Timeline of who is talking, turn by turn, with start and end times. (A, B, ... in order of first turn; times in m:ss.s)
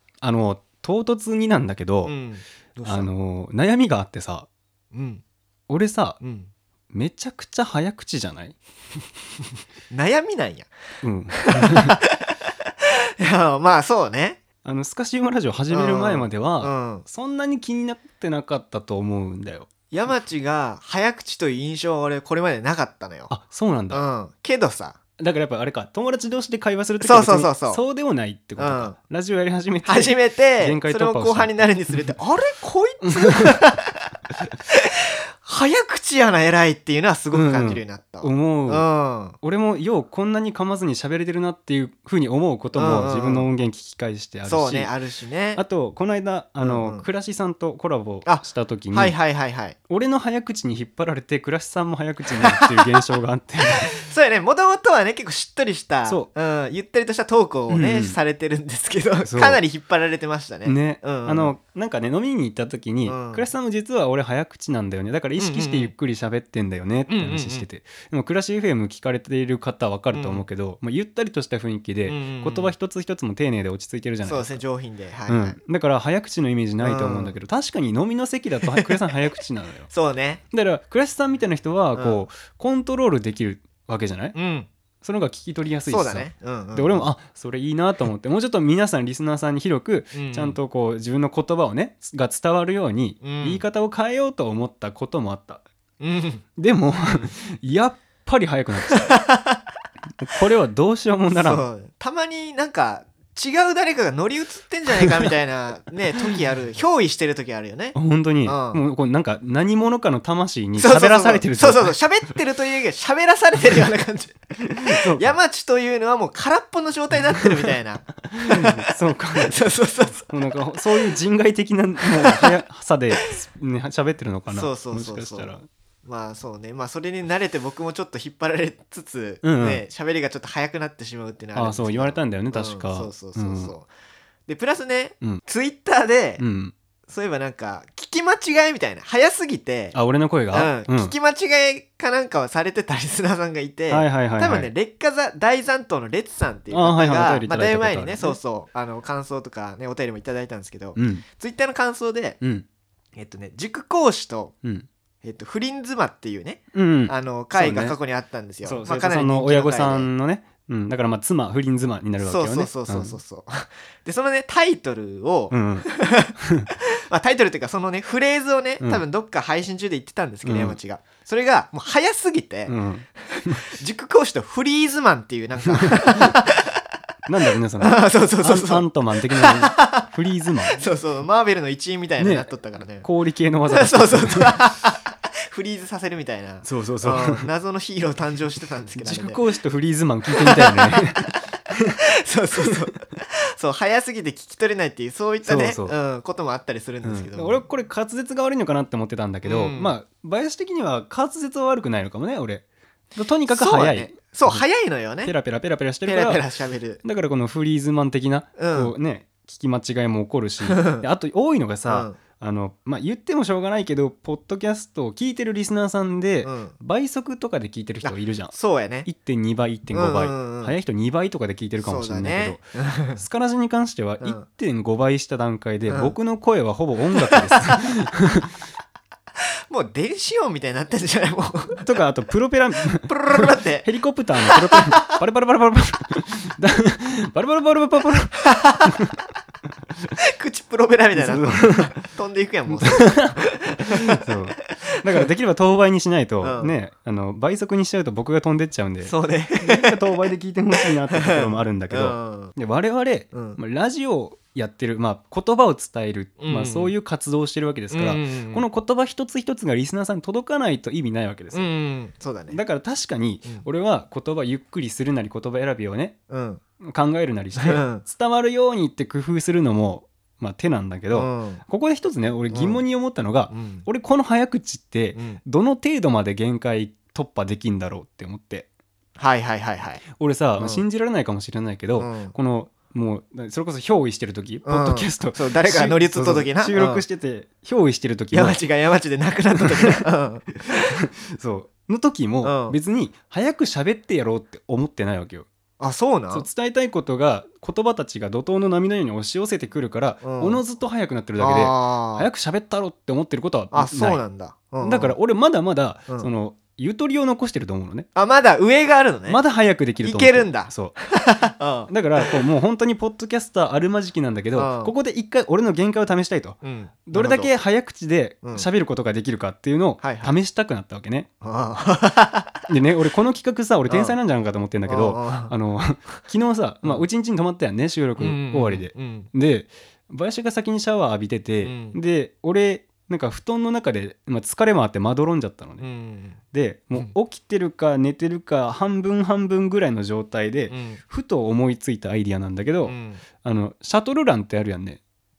0:00.2-0:02.1 A
0:02.0-0:03.1 B
0:02.8-0:04.5 A
0:04.9-0:05.2 B
0:05.7-0:06.2 A
0:06.2-0:06.5 B
0:06.9-0:08.5 A
0:09.9-0:10.7 B
0:11.0-0:12.0 A
0:11.4-0:12.0 B
0:13.2-0:14.4 B
0:14.6-0:19.7 A
0:15.7-0:17.0 B
0:19.9-0:23.3 B
0:23.3-0:24.0 A
0:23.9-0:25.0 B
0:25.2-0:31.6 A
0:27.0-0:27.8 B
0:28.6-0:29.0 B
0:29.8-0:34.0 B
0:33.0-0:33.6 A
0:34.7-0:39.4 B
0:37.3-0:38.8 A
0:39.4-0:44.9 A
0:42.7-0:43.5 B
0:44.4-0:45.6 B
0:45.6-0:49.2 A
0:46.6-0:47.0 B
0:48.2-0:49.8 B
0:49.9-0:53.9 A
0:52.6-0:52.8 B
0:53.8-1:01.5 B
0:57.7-0:58.2 A
0:59.2-0:59.6 A
1:00.6-1:14.6 A
1:03.0-1:03.5 B
1:05.4-1:05.9 B
1:07.1-1:07.6 B
1:10.1-1:10.4 B
1:12.0-1:12.7 B
1:14.2-1:15.6 B
1:15.3-1:19.9 A
1:16.8-1:17.4 B
1:18.7-1:19.0 B
1:19.9-1:20.4 B
1:20.5-1:24.4 A
1:21.9-1:22.3 B
1:24.3-1:24.7 B
1:25.0-1:35.6 A
1:25.9-1:27.1 B
1:30.1-1:30.6 B
1:33.2-1:33.6 B
1:36.0-1:36.4 B
1:36.6-1:39.2 A
1:38.9-1:39.6 B
1:40.2-1:41.6 A
1:41.3-1:48.8 B
1:47.9-1:52.0 A
1:50.8-2:00.3 B
1:54.8-1:55.4 A
1:57.3-1:57.8 A
1:58.3-1:59.6 A
2:00.3-2:05.7 A
2:02.0-2:02.6 B
2:04.5-2:13.9 B
2:09.4-2:09.8 A
2:11.5-2:13.7 A
2:14.5-2:16.4 B
2:16.4-2:16.7 A
2:17.1-2:20.0 B
2:19.9-2:21.1 A
2:20.5-2:32.4 B
2:23.9-2:24.7 A
2:26.7-2:28.4 A
2:30.9-2:31.2 A
2:32.4-2:32.6 A
2:33.1-2:34.5 B
2:35.2-2:40.1 B
2:36.7-2:38.0 A
2:38.6-2:43.2 A
2:42.2-2:46.3 B
2:45.5-2:46.7 A
2:47.1-2:56.7 B
2:50.4-2:50.8 A
2:52.7-2:53.6 A
2:55.7-2:56.3 A
2:57.2-3:00.8 A
2:57.8-3:00.0 B
3:00.7-3:03.0 B
3:02.2-3:04.6 A
3:03.7-3:09.4 B
3:06.6-3:07.5 A
3:09.0-3:11.9 A
3:10.3-3:11.0 B
3:12.0-3:17.6 B
3:15.4-3:15.9 A
3:17.0-3:24.6 A
3:19.4-3:19.9 B
3:23.5-3:25.3 B
3:25.2-3:26.4 A
3:26.0-3:27.0 B
3:27.0-3:48.5 A
3:28.6-3:28.9 B
3:30.6-3:31.0 B
3:31.8-3:32.2 B
3:36.4-3:36.7 B
3:38.0-3:39.1 B
3:39.9-3:40.8 B
3:41.8-3:43.2 B
3:45.9-3:46.1 B
3:47.1-3:47.5 B
3:49.7-3:51.9 B
3:51.8-3:59.1 A
3:53.0-3:53.9 B
3:54.4-3:55.1 B
3:58.5-3:58.8 B
4:00.3-4:04.1 B
4:01.1-4:02.0 A
4:02.8-4:21.7 A
4:06.4-4:06.8 B
4:09.0-4:09.9 B
4:10.8-4:12.5 B
4:13.3-4:13.6 B
4:16.4-4:16.9 B
4:17.9-4:18.6 B
4:21.5-4:22.6 B
4:22.5-4:26.2 A
4:26.3-4:26.6 B
4:26.8-4:38.7 A
4:27.5-4:28.0 B
4:31.1-4:31.6 B
4:32.5-4:32.8 B
4:33.5-4:33.8 B
4:35.1-4:35.4 B
4:39.2-4:40.0 B
4:40.1-4:48.6 A
4:40.6-4:40.8 B
4:42.0-4:42.3 B
4:44.6-4:47.0 B
4:48.3-4:50.9 B
4:49.5-4:50.0 A
4:50.7-4:55.5 A
4:52.4-4:52.8 B
4:55.8-4:56.5 B
4:56.3-5:04.2 A
5:00.2-5:00.6 B
5:01.4-5:02.3 B
5:03.7-5:05.2 B
5:04.8-5:08.1 A
5:08.1-5:09.4 B
5:09.3-5:11.0 A
5:10.0-5:12.4 B
5:11.9-5:21.3 A
5:14.5-5:14.9 B
5:16.6-5:17.5 B
5:20.0-5:20.4 B
5:21.4-5:22.6 B
5:22.7-5:35.8 A
5:23.9-5:24.2 B
5:24.9-5:25.5 B
5:28.2-5:29.3 B
5:31.6-5:32.0 B
5:35.8-5:36.4 B
5:36.5-5:45.0 A
5:40.7-5:41.0 B
5:42.8-5:43.2 B